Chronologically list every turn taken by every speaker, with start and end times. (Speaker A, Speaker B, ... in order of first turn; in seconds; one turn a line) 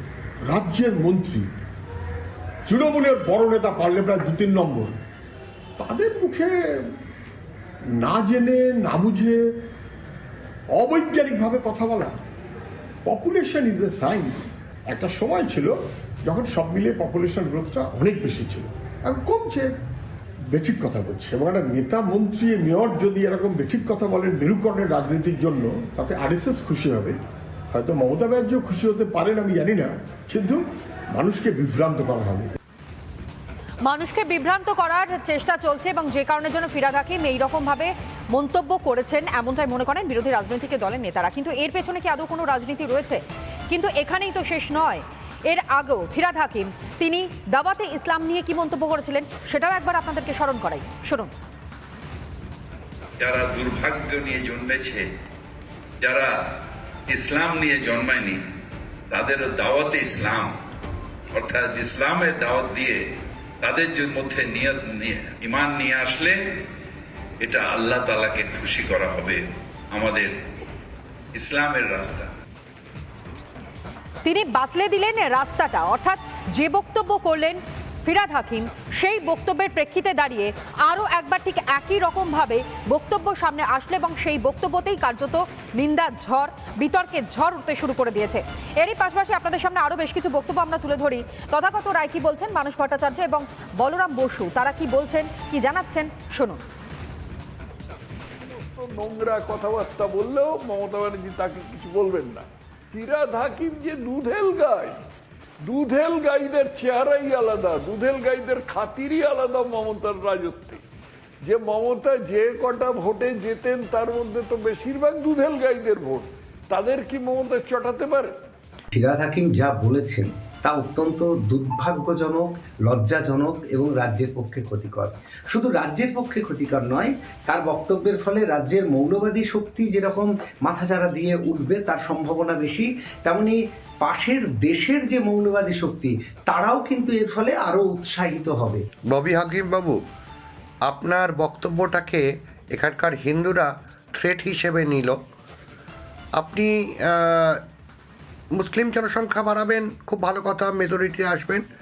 Speaker A: 0.5-1.5
Speaker A: 2.6-5.0
Speaker A: 5.8-6.5
Speaker A: 8.0-9.4
Speaker A: 10.7-12.2
Speaker A: 13.0-19.7
Speaker A: 20.5-27.2
Speaker A: 27.7-30.6
Speaker A: 31.1-32.5
Speaker B: 33.8-43.2
Speaker B: 43.7-51.3
Speaker C: 53.2-55.0
Speaker C: 56.0-56.3
Speaker C: 57.1-58.4
Speaker C: 59.1-60.6
Speaker C: 61.3-63.0
Speaker C: 63.6-66.4
Speaker C: 67.4-70.3
Speaker C: 71.3-72.3
Speaker B: 74.2-96.6
Speaker D: 98.4-105.0
Speaker D: 105.6-110.8
Speaker D: 111.4-118.3
Speaker E: 118.9-138.8
Speaker F: 139.1-140.0
Speaker F: 140.8-145.2
Speaker F: 146.4-147.6
Speaker F: 148.6-151.6